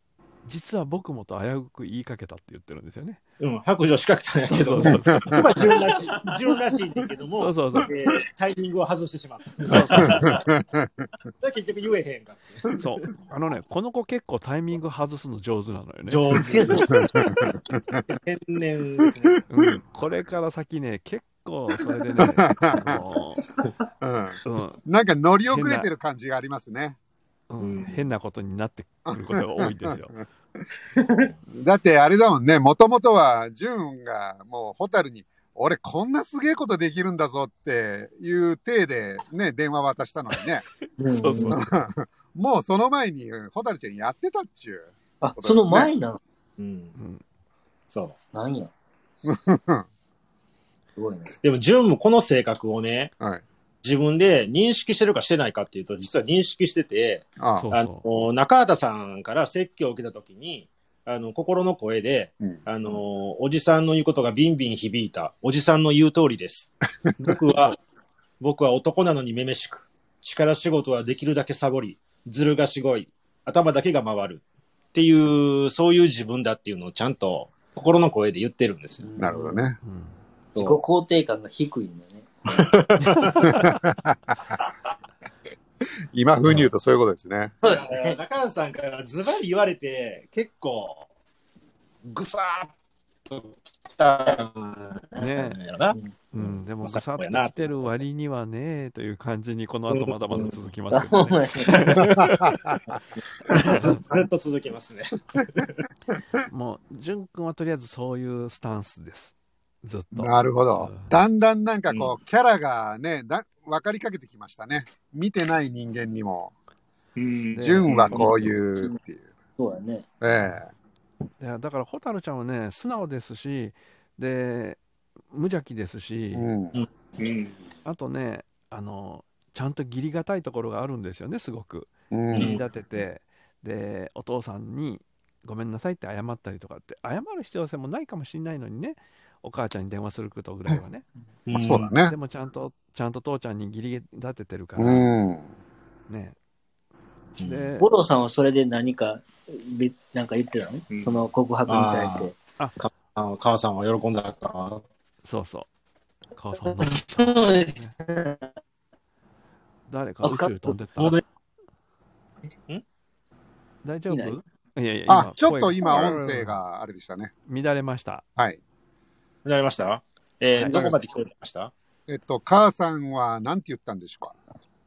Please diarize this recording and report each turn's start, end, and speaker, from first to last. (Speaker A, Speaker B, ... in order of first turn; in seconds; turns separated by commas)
Speaker A: 0.5-3.2, Speaker B: 3.4-10.5, Speaker A: 4.4-5.7, Speaker C: 4.9-5.5, Speaker A: 7.4-7.9, Speaker A: 9.7-10.4, Speaker C: 9.9-11.1, Speaker B: 11.4-12.8, Speaker A: 12.8-16.8, Speaker B: 16.1-19.4, Speaker D: 16.4-17.1, Speaker C: 17.0-18.0, Speaker A: 19.5-23.5, Speaker C: 22.2-23.0, Speaker C: 24.0-27.0, Speaker A: 24.4-24.8, Speaker A: 25.5-25.9, Speaker A: 27.5-30.2, Speaker B: 27.6-28.0, Speaker C: 29.1-30.0, Speaker C: 31.5-40.6, Speaker D: 41.0-41.6, Speaker A: 41.1-41.7, Speaker C: 41.4-45.9, Speaker D: 45.2-46.2, Speaker B: 46.6-47.0, Speaker A: 47.0-47.2, Speaker B: 47.9-48.2, Speaker D: 48.3-48.7, Speaker C: 49.2-49.9, Speaker D: 51.0-51.4, Speaker B: 51.4-53.1, Speaker B: 53.8-67.8, Speaker C: 57.4-57.7, Speaker A: 57.6-58.0, Speaker B: 68.4-74.4, Speaker B: 74.9-79.1, Speaker D: 79.0-79.6, Speaker C: 79.2-79.8, Speaker A: 79.8-80.2, Speaker B: 80.5-80.8, Speaker D: 80.6-82.7, Speaker B: 82.5-83.6, Speaker A: 83.3-83.6, Speaker C: 83.5-84.3, Speaker C: 86.1-87.5, Speaker D: 87.6-88.2, Speaker B: 87.6-91.1, Speaker B: 92.0-92.7, Speaker B: 93.3-97.8, Speaker A: 95.2-95.6, Speaker A: 96.3-102.2, Speaker B: 99.9-100.5, Speaker D: 100.9-102.2, Speaker B: 101.7-102.0, Speaker C: 102.0-102.8, Speaker B: 103.2-105.8, Speaker A: 103.5-104.0, Speaker A: 106.5-111.1, Speaker C: 110.1-116.5, Speaker E: 117.2-118.3, Speaker A: 117.5-118.1, Speaker C: 117.6-119.3, Speaker B: 117.9-118.2, Speaker D: 119.6-120.1, Speaker C: 120.2-120.7, Speaker A: 121.4-124.8, Speaker A: 125.3-126.5, Speaker C: 126.3-126.8, Speaker E: 127.2-127.6, Speaker A: 127.8-141.1, Speaker C: 132.1-132.6, Speaker B: 132.3-132.6, Speaker B: 141.5-141.9, Speaker C: 141.5-142.2, Speaker A: 142.0-145.1, Speaker C: 144.8-145.5, Speaker A: 146.1-146.4, Speaker B: 147.4-147.7, Speaker A: 147.4-147.9, Speaker D: 147.8-152.4, Speaker E: 150.9-151.3, Speaker B: 151.7-154.8, Speaker A: 155.2-155.7, Speaker A: 156.3-157.9, Speaker D: 156.6-158.6, Speaker A: 159.9-161.2, Speaker D: 160.2-160.8, Speaker B: 161.0-161.2, Speaker A: 163.8-166.6, Speaker D: 164.1-164.4, Speaker C: 165.1-167.3, Speaker A: 167.5-168.2, Speaker B: 169.4-171.7, Speaker C: 170.7-171.0, Speaker C: 172.1-174.3